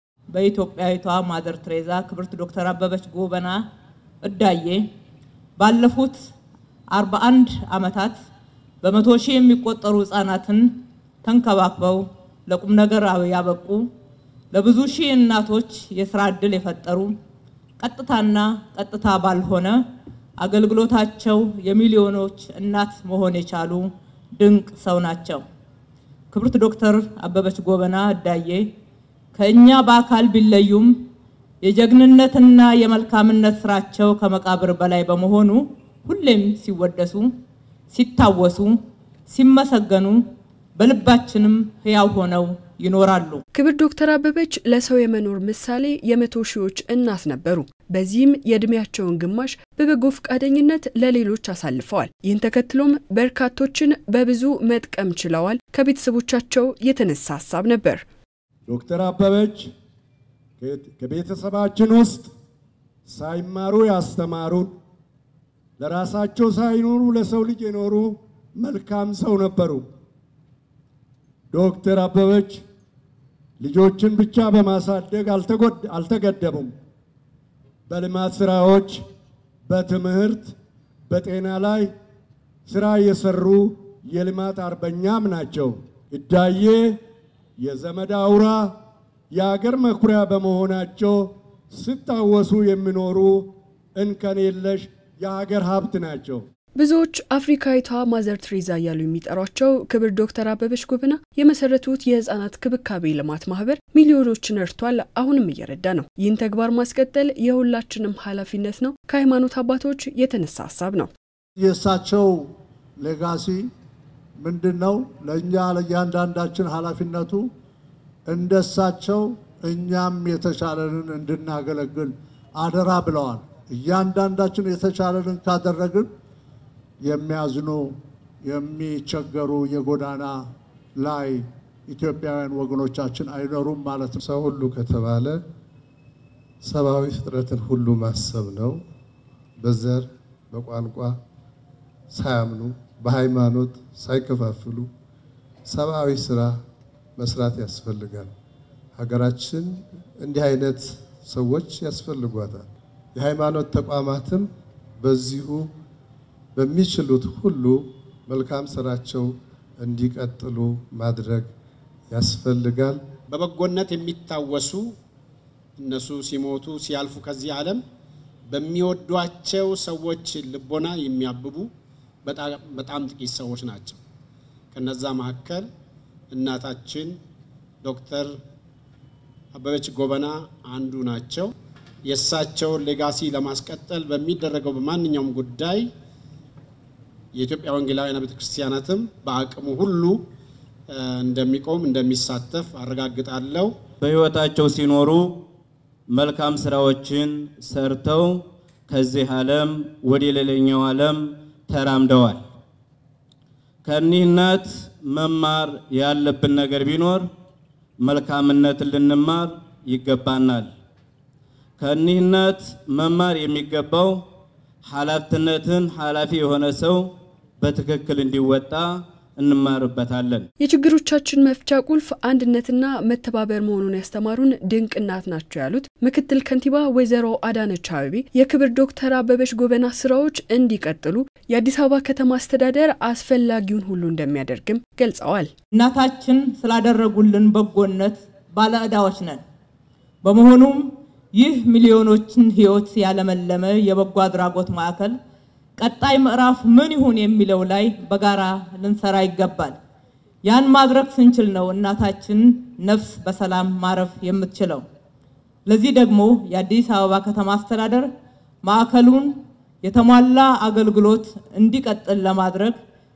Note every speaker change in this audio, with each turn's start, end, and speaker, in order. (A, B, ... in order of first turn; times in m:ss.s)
0:00.3-0:03.6 A
0:04.2-0:04.8 A
0:05.6-0:06.1 A
0:07.0-0:08.1 A
0:08.8-0:10.7 A
0:11.2-0:13.8 A
0:14.5-0:17.1 A
0:17.8-0:19.8 A
0:20.4-0:23.8 A
0:24.4-0:25.4 A
0:26.3-0:28.6 A
0:29.3-0:30.9 A
0:31.6-0:37.3 A
0:37.9-0:38.7 A
0:39.3-0:40.2 A
0:40.8-0:43.4 A
0:43.5-0:58.0 B
0:58.7-0:59.7 C
1:00.6-1:02.3 C
1:03.0-1:04.7 C
1:05.8-1:09.8 C
1:11.5-1:12.6 C
1:13.6-1:16.7 C
1:17.9-1:19.0 C
1:19.6-1:20.5 C
1:21.1-1:21.9 C
1:22.7-1:27.0 C
1:27.6-1:28.8 C
1:29.3-1:36.4 C
1:36.8-1:51.1 B
1:51.6-1:53.7 D
1:54.4-1:57.5 D
1:58.2-2:06.1 D
2:07.0-2:14.2 D
2:14.2-2:15.4 E
2:16.6-2:18.8 E
2:19.6-2:21.2 E
2:22.1-2:24.9 E
2:25.7-2:26.6 E
2:27.2-2:28.3 E
2:29.0-2:34.5 E
2:35.0-2:35.7 E
2:36.6-2:41.5 E
2:42.1-2:43.0 E
2:43.3-2:44.9 F
2:45.8-2:47.8 F
2:48.5-2:51.7 F
2:52.2-2:54.0 F
2:54.7-2:55.7 F
2:56.3-2:57.2 F
2:57.8-2:58.3 F
2:59.5-3:01.5 F
3:02.1-3:05.8 F
3:07.4-3:10.2 F
3:11.0-3:13.7 F
3:14.0-3:15.4 G
3:16.1-3:22.4 G
3:23.8-3:27.3 G
3:28.0-3:30.7 G
3:31.8-3:34.2 G
3:34.8-3:40.5 G
3:40.6-3:55.5 B
3:55.7-3:59.4 A
4:00.2-4:05.1 A
4:05.8-4:09.8 A
4:10.4-4:14.8 A
4:15.7-4:18.1 A
4:18.6-4:22.8 A